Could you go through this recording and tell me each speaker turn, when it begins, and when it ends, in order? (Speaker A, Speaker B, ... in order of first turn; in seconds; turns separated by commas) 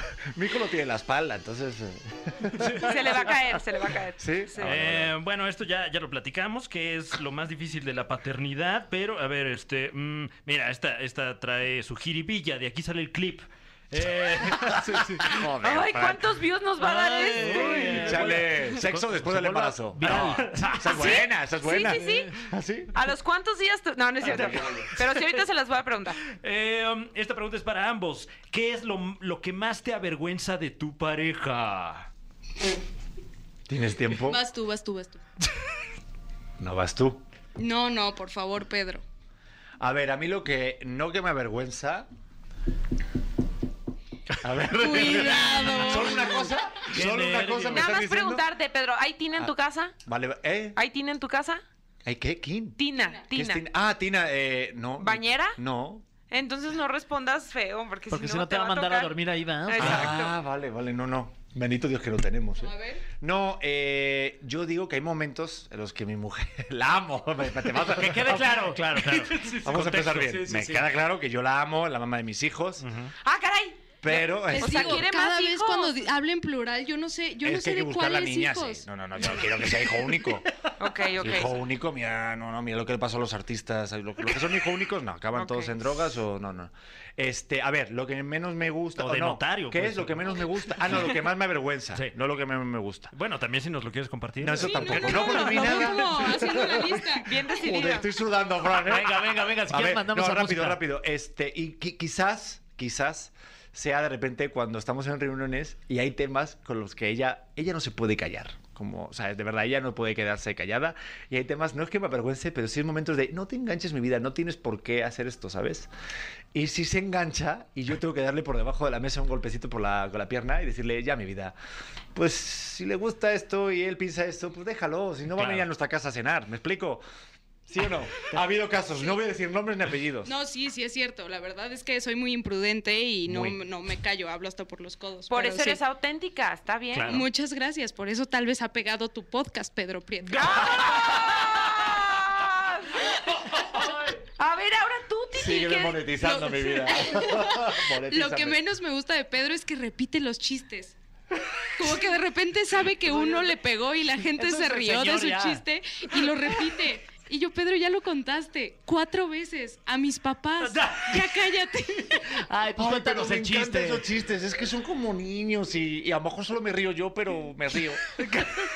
Speaker A: 0.3-3.4, Speaker B: 2.5-3.0, Speaker C: 2.8-4.8, Speaker A: 4.2-5.1, Speaker B: 4.6-15.2, Speaker A: 14.6-16.4, Speaker C: 15.6-18.1, Speaker D: 16.8-21.2, Speaker B: 17.3-18.4, Speaker A: 17.7-22.9, Speaker B: 20.0-20.7, Speaker C: 20.9-22.3, Speaker C: 22.9-26.2, Speaker A: 24.2-24.9, Speaker B: 26.3-32.1, Speaker A: 33.7-34.4, Speaker E: 34.2-35.2, Speaker A: 36.6-37.2, Speaker E: 37.6-39.0, Speaker A: 39.8-42.1, Speaker A: 44.4-48.5, Speaker E: 44.7-46.5, Speaker D: 44.9-46.2, Speaker D: 46.8-47.9, Speaker C: 47.7-50.0, Speaker A: 50.0-50.8, Speaker C: 50.8-51.6, Speaker A: 52.0-56.0, Speaker C: 52.8-53.6, Speaker E: 53.0-53.3, Speaker C: 55.0-55.6, Speaker C: 56.3-59.1, Speaker D: 58.1-60.1, Speaker C: 59.7-60.4, Speaker A: 59.8-68.7, Speaker E: 62.6-63.1, Speaker D: 67.7-70.8, Speaker B: 68.7-70.8, Speaker A: 69.6-72.8, Speaker B: 72.8-73.1, Speaker C: 73.2-76.1, Speaker A: 74.0-75.1, Speaker E: 74.1-78.9, Speaker A: 77.4-80.5, Speaker C: 80.8-81.6, Speaker A: 81.2-93.1, Speaker C: 85.3-85.7, Speaker B: 89.0-91.1, Speaker B: 93.1-96.0, Speaker A: 94.4-115.9, Speaker E: 94.6-97.3, Speaker C: 97.2-98.1, Speaker D: 98.7-100.8, Speaker A: 116.5-121.5, Speaker A: 122.2-127.0, Speaker B: 125.4-125.7, Speaker A: 127.7-130.3, Speaker E: 130.2-135.8, Speaker A: 133.3-133.6, Speaker C: 135.3-137.2, Speaker B: 136.9-137.3, Speaker E: 137.1-140.8, Speaker C: 140.4-146.1, Speaker A: 145.3-148.6, Speaker E: 146.2-150.9, Speaker E: 151.8-162.4, Speaker D: 154.3-155.6, Speaker B: 160.7-161.2, Speaker D: 162.3-164.1, Speaker A: 162.8-168.2